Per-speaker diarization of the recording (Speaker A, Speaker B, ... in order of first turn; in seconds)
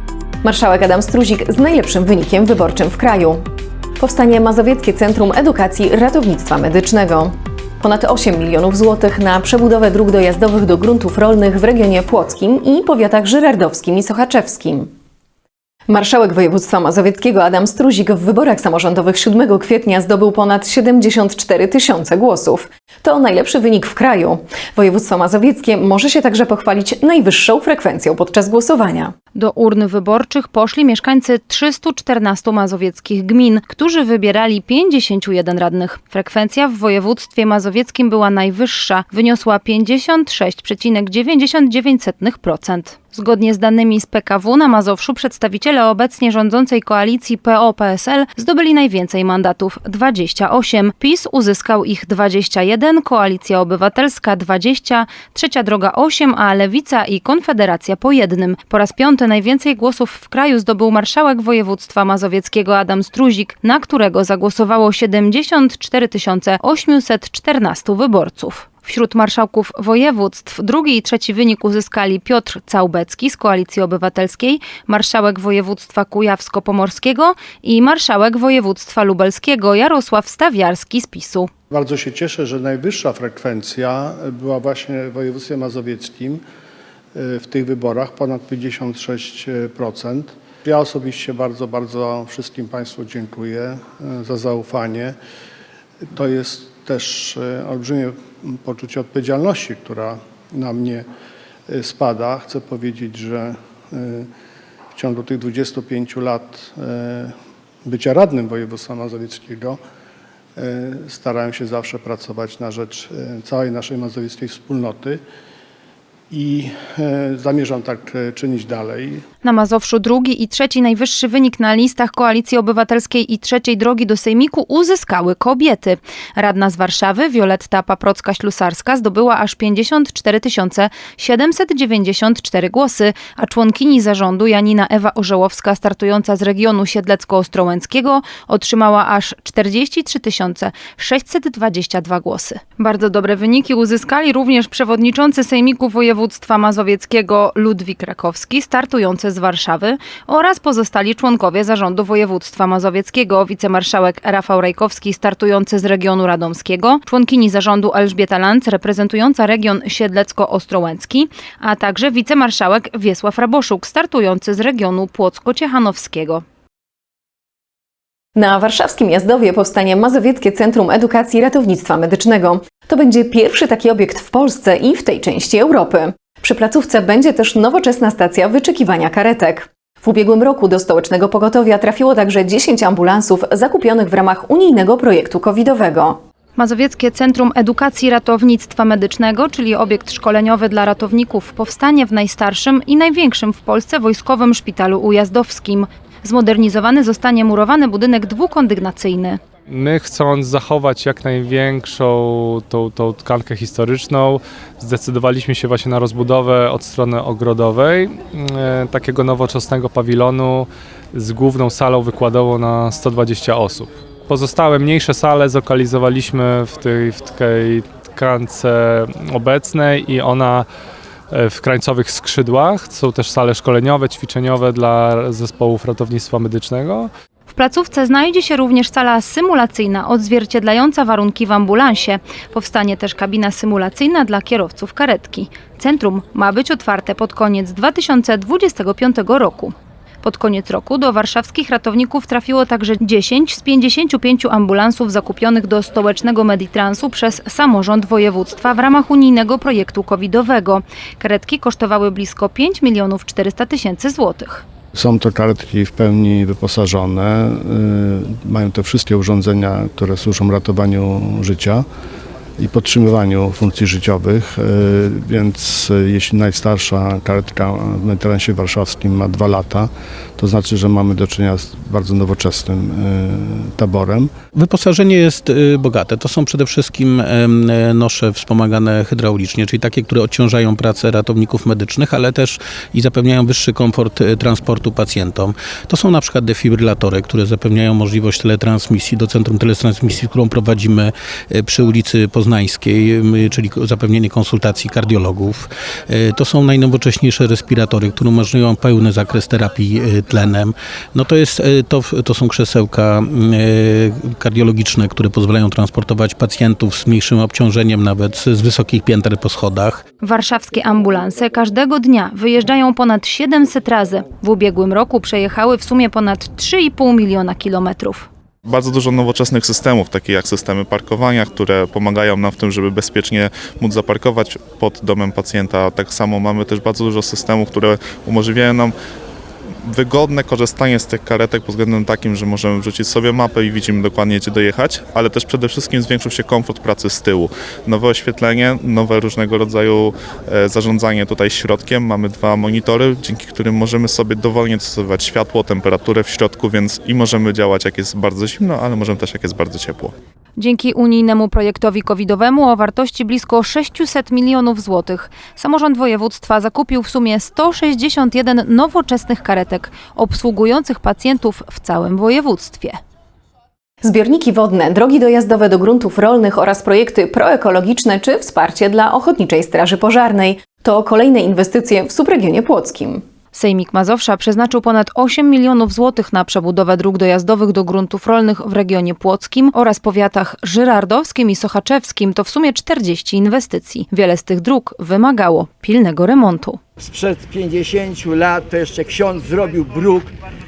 Speaker A: 0.4-3.4, 4.0-14.9, 15.9-29.1, 168.4-186.2, 364.0-373.2
Speaker B: 29.4-81.5, 119.4-166.4, 186.6-199.4, 227.5-254.7, 310.2-318.3, 350.6-363.0, 373.5-386.8
Speaker C: 81.7-86.4, 87.2-95.2, 96.1-101.1, 101.7-104.3, 105.0-107.3, 107.8-109.8, 110.6-115.2, 116.3-119.2, 254.9-261.9, 262.6-274.3
Speaker D: 199.7-220.7, 221.3-227.1
Speaker E: 274.6-310.0
Speaker F: 318.6-329.0, 329.9-350.1
Speaker G: 387.1-390.3